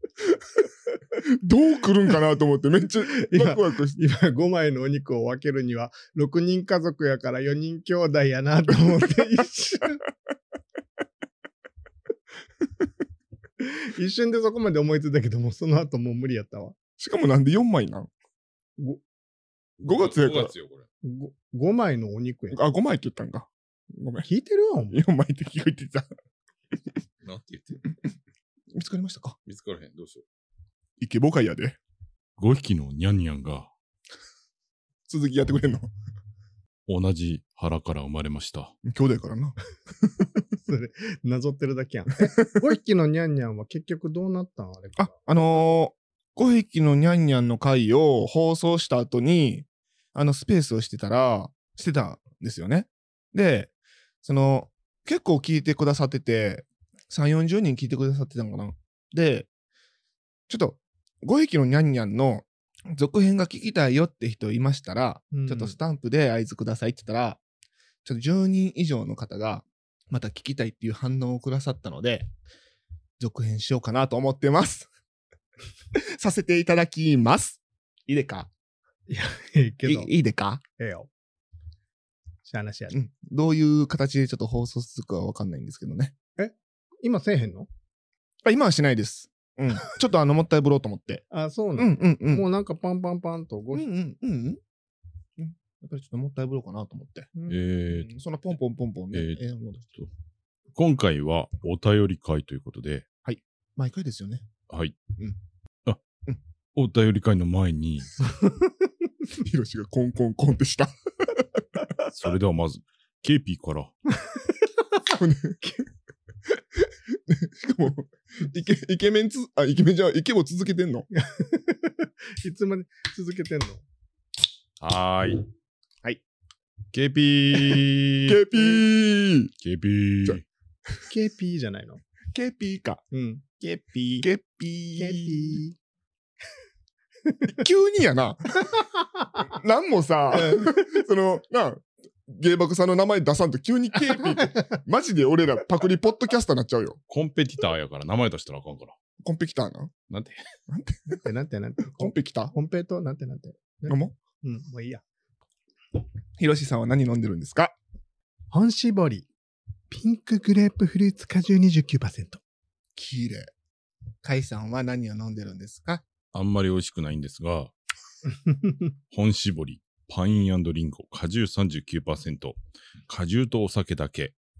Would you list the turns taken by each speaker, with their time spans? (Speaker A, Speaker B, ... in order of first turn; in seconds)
Speaker A: 1.4-4.0, 17.0-18.1, 19.8-20.5, 22.5-24.3, 24.9-26.1, 28.7-29.4, 31.0-31.8, 35.1-35.9, 38.9-39.6, 42.4-42.6, 45.0-53.7, 54.2-59.5, 60.5-67.4, 68.0-72.3, 73.2-74.9, 75.9-78.5, 79.8-80.6, 82.9-86.2, 88.5-91.2, 91.8-92.5, 93.7-94.6, 95.4-97.3, 97.9-99.9, 103.2-104.5, 109.4-111.6, 115.1-115.8, 116.5-121.1, 128.2-129.5, 132.3-133.0, 134.2-135.6, 137.4-138.8, 139.4-147.0, 149.2-149.9, 150.7-151.3, 151.9-152.5, 153.9-154.2, 156.4-157.8, 163.0-163.5, 164.2-166.1
Speaker B: 3.1-10.0, 13.6-16.8, 21.0-22.6, 24.2-25.0, 40.7-45.3, 65.3-65.8, 79.1-80.1, 80.8-81.1, 82.5-83.0, 86.4-87.7, 91.3-93.9, 121.2-123.8, 131.1-132.0, 133.1-134.2, 135.0-135.8, 138.8-139.4, 140.3-140.9, 144.3-144.8, 151.2-155.0, 158.5-159.3, 159.9-162.4, 168.5-168.7
Speaker C: 19.8-20.9, 27.2-27.9, 29.5-30.2, 32.4-33.7, 36.9-38.8, 97.5-98.1, 99.1-99.4, 100.8-103.0, 104.7-105.0, 106.8-108.3, 112.1-113.9, 124.8-125.5, 126.9-128.4, 129.6-130.4, 147.1-148.9, 150.1-150.4, 166.3-167.7, 169.1-174.3